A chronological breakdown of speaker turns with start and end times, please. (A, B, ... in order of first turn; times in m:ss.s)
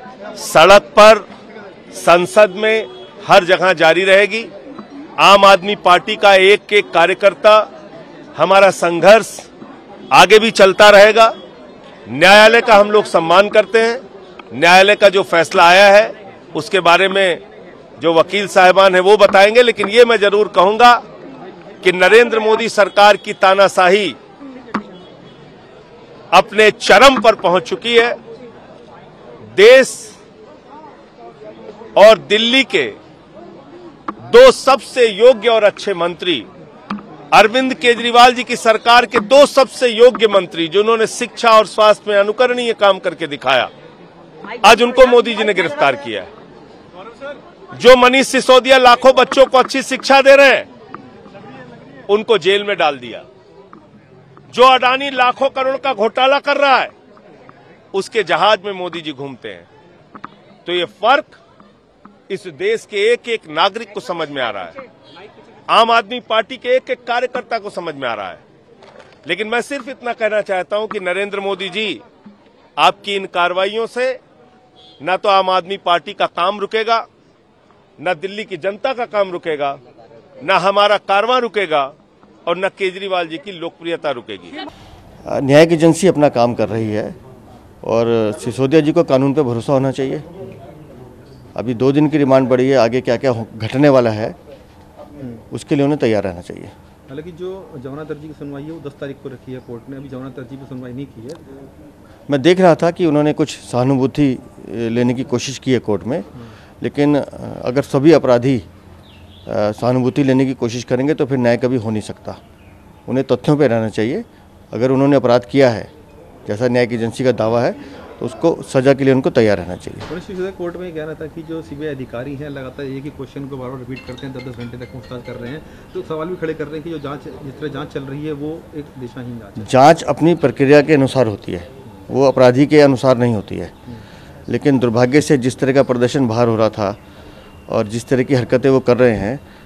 0:00.3-0:01.2 A
0:01.9-0:04.5 A
0:05.2-0:07.7 A
0:08.4-0:09.5 A
0:10.1-0:11.3 A
0:12.1-0:17.4 A
0:18.0-0:21.0 A
0:21.8-0:24.2 A
0:26.3-0:28.2 A
0:29.5-0:30.1 A
0:32.0-0:33.0 A
0:34.2-0:36.5 A
0:37.3-0:43.7 A
0:44.6-0:46.3 A
0:47.7-0:50.7 A
0:52.1-0:53.2 A
0:54.5-0:56.9 A
0:57.9-0:59.7 A
1:00.6-1:01.4 A
1:02.3-1:04.8 A
1:05.7-1:08.4 A
1:09.2-1:12.0 A
1:12.8-1:14.2 A
1:15.0-1:17.0 A
1:18.0-1:19.8 A
1:20.4-1:21.9 A
1:22.4-1:24.6 A
1:25.2-1:27.2 B
1:27.8-1:30.2 B
1:31.5-1:34.4 B
1:35.5-1:36.7 B
1:37.1-1:41.4 C
1:42.3-1:46.3 B
1:46.8-1:48.6 B
1:49.4-1:52.4 B
1:53.1-1:55.9 B
1:56.4-2:00.1 B
2:00.1-2:09.7 C
2:09.6-2:13.7 B
2:14.5-2:17.0 B
2:17.7-2:19.4 B